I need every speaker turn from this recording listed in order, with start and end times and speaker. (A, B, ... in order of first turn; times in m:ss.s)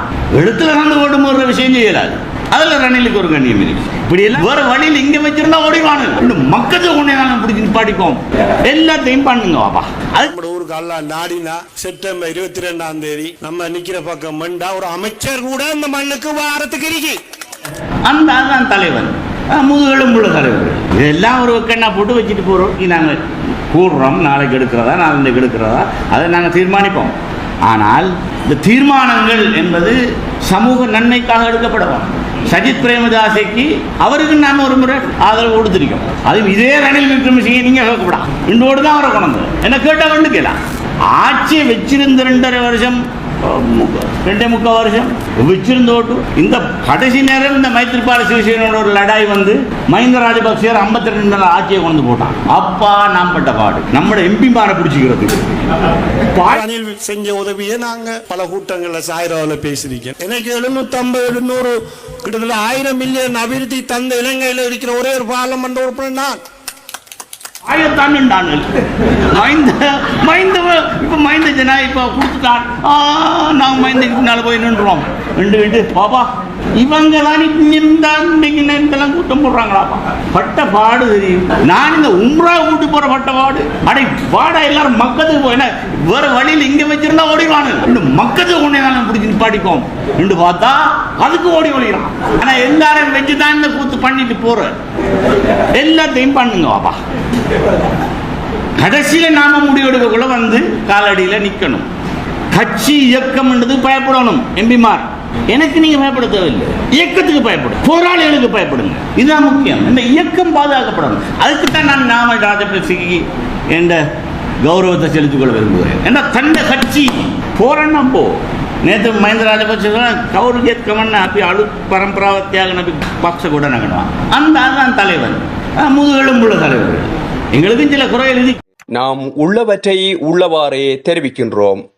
0:00.3-0:10.3 A
0:10.2-0:17.2 B
0:18.0-0:23.2 A
0:23.7-0:27.1 A
0:27.7-0:55.4 A
0:56.3-0:56.6 A
0:56.4-1:06.4 B
1:07.6-1:34.8 A
1:35.7-1:37.0 A
1:38.8-1:41.9 A
1:42.5-1:54.0 A
1:54.6-2:08.6 A
2:08.9-2:11.8 C